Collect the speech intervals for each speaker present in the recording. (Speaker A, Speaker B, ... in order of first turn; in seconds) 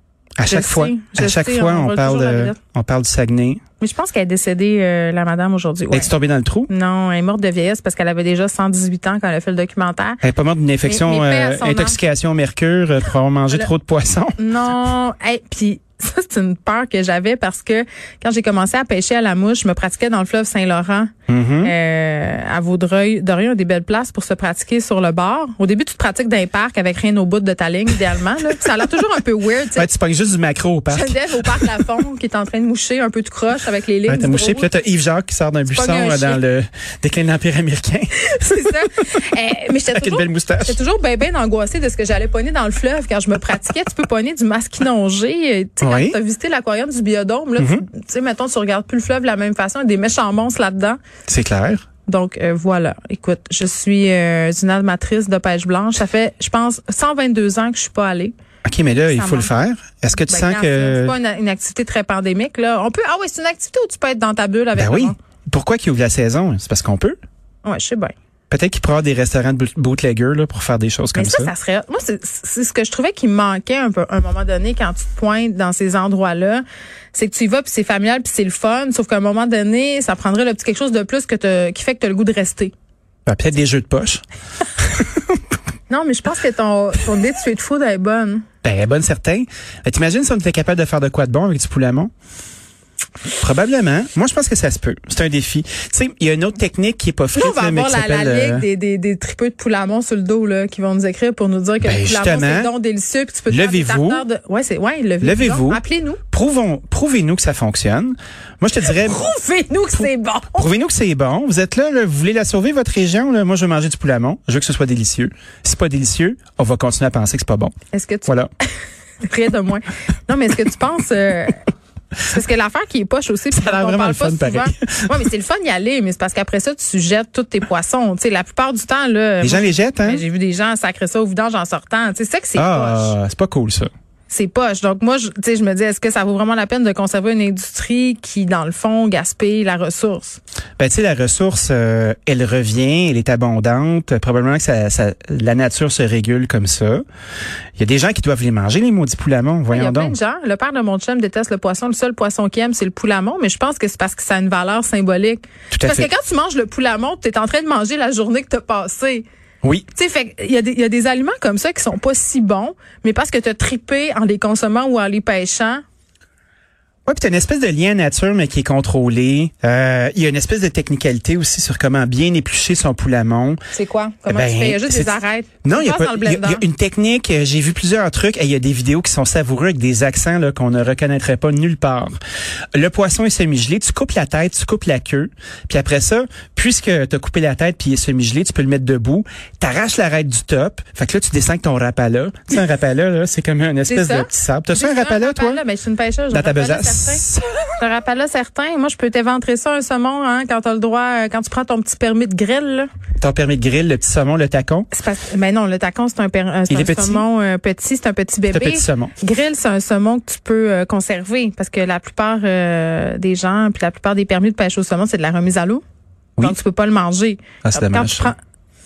Speaker A: 0.4-3.6, 5.9-6.7, 10.2-14.4, 21.3-21.7, 29.8-31.7, 34.1-38.9, 39.9-40.8, 45.8-46.2, 47.6-47.9, 51.3-51.8, 58.6-61.2, 64.8-67.2, 68.5-71.5, 83.3-84.2, 84.8-85.4, 88.6-92.1, 93.4-98.7, 101.8-102.7, 103.5-104.3, 105.2-109.2, 110.0-117.8, 123.5-125.2, 129.4-130.2, 132.6-133.9, 140.8-147.0, 147.8-150.2, 155.7-156.1, 167.1-173.6, 174.3-182.2, 182.8-195.6, 196.3-197.7, 203.2-204.9, 206.7-207.3, 208.5-209.1, 217.6-218.3
Speaker B: 0.5-2.6, 3.8-6.1, 6.7-10.2, 10.8-12.0, 14.4-29.9, 30.9-34.7, 35.7-36.4, 38.2-51.0, 52.1-58.3, 59.1-59.5, 60.1-65.2, 67.6-68.1, 71.1-82.7, 85.9-88.4, 97.3-106.2, 108.8-110.7, 117.9-118.3, 119.2-121.6, 122.2-133.2, 134.3-140.4, 149.7-159.2, 159.9-165.8, 173.7-176.6, 193.9-197.2, 197.8-202.9, 204.9-215.8, 216.4-218.4